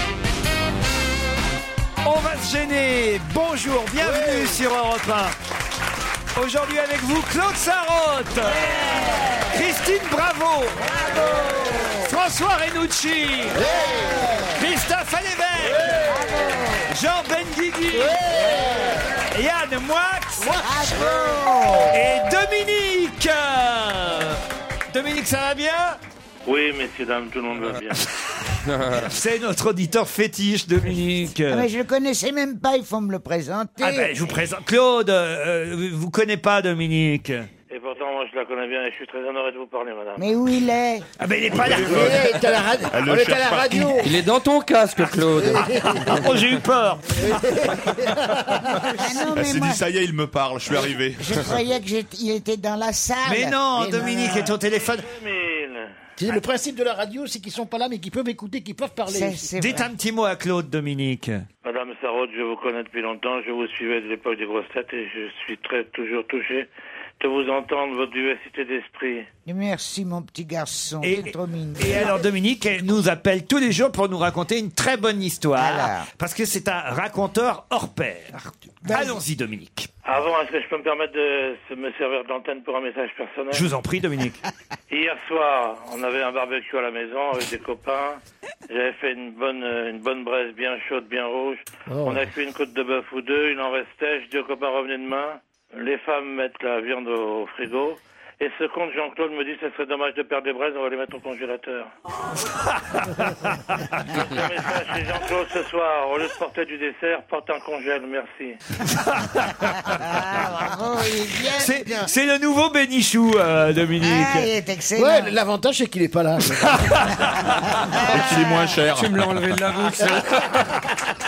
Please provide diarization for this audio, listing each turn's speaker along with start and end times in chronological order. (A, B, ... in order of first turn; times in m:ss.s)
0:02.0-0:05.4 A
0:04.0-0:04.6 B
0:06.4-0:10.9 A
0:08.4-0:09.6 C
0:10.8-0:12.2 C
0:12.0-0:13.6 A
0:13.5-0:14.6 C
0:13.6-0:14.5 B
0:14.6-0:16.2 A
0:15.6-0:16.1 B
0:16.0-0:16.9 C
0:16.9-0:18.3 A
0:18.1-0:18.9 B
0:18.2-0:19.2 C
0:19.3-0:20.6 A
0:20.6-0:22.0 C
0:21.9-0:24.4 A
0:24.9-0:26.0 A
0:26.5-0:28.0 D
0:28.6-0:29.1 E
0:28.9-0:31.7 A
0:31.5-0:34.2 C
0:33.8-0:37.5 A
0:37.7-0:40.3 D
0:40.2-0:41.1 C
0:41.2-0:42.4 A
0:41.5-0:42.3 F
0:41.7-0:44.1 B
0:42.9-0:44.0 F
0:44.0-0:46.3 E
0:45.3-0:46.3 B
0:45.6-0:47.4 A
0:47.2-0:48.7 B
0:48.9-0:49.8 C
0:49.4-0:51.5 F
0:51.2-0:54.4 C
0:53.2-0:55.1 A
0:53.8-0:54.2 B
0:54.1-0:55.9 D
0:56.2-0:59.5 B
0:59.1-0:59.9 C
0:59.6-1:01.4 A
1:01.6-1:06.7 D
1:07.2-1:09.3 D
1:09.5-1:12.3 C
1:11.0-1:19.9 A
1:15.6-1:16.1 C
1:18.8-1:19.2 C
1:20.0-1:23.7 D
1:23.5-1:24.4 A
1:24.9-1:41.9 D
1:31.9-1:32.2 B
1:42.7-1:43.4 A
1:44.1-1:48.6 D
1:49.0-1:49.8 A
1:49.9-1:52.1 C
1:51.6-1:54.5 A
1:54.0-1:55.4 C
1:55.0-1:57.0 B
1:56.9-1:57.6 A
1:57.9-1:58.7 C
1:58.0-1:59.5 F
1:58.9-2:00.8 E
1:59.8-2:00.9 B